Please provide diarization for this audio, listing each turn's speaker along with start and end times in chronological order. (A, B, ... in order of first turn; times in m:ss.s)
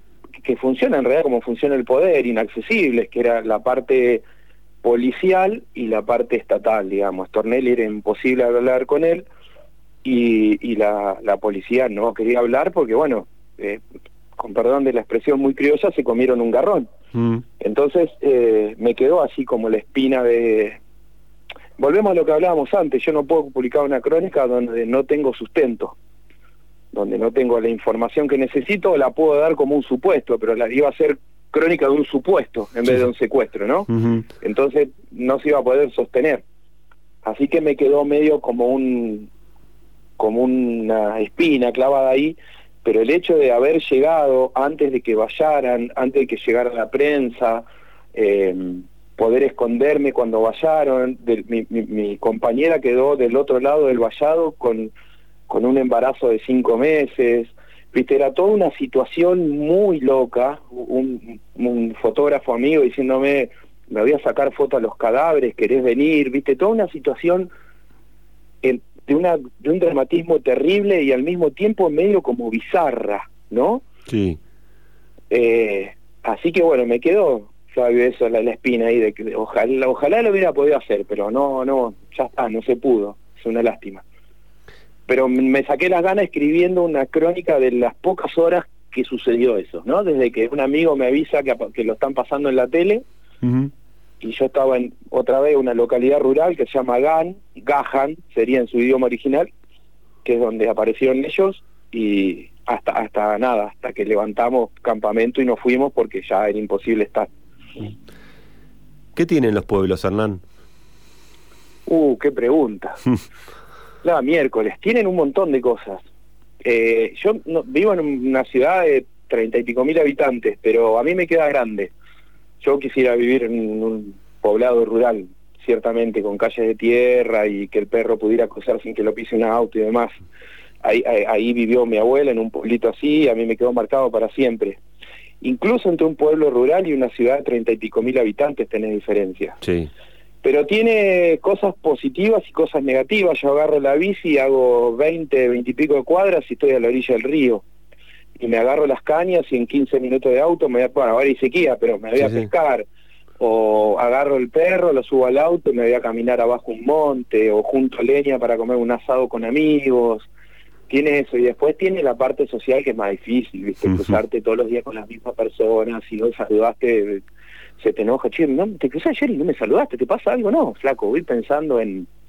0:00.4-0:04.2 A
0:04.8-0:09.3 A
0:10.0-0:13.8 A
0:14.4-0:16.9 A
0:17.1-0:17.4 B
0:17.6-0:20.8 A
0:21.8-0:26.0 A
0:26.9-0:33.9 A
0:33.9-0:34.3 B
0:34.4-0:36.4 A
0:37.2-0:39.3 A
0:40.2-0:54.9 A
0:55.5-1:07.5 A
1:08.6-1:13.8 A
1:14.1-1:14.4 B
1:15.3-1:24.0 A
1:25.1-1:33.0 A
1:33.4-1:33.7 B
1:34.2-1:39.5 A
1:40.2-1:47.3 A
1:49.2-1:50.4 B
1:51.9-1:53.0 A
1:54.0-1:56.0 A
1:56.6-2:01.9 A
2:02.6-2:10.2 A
2:10.8-2:14.8 A
2:15.4-2:19.6 A
2:19.6-2:19.9 B
2:20.4-2:27.6 A
2:28.4-2:32.9 A
2:32.2-2:32.5 B
2:33.4-2:40.3 A
2:40.9-2:47.2 A
2:47.8-2:52.1 A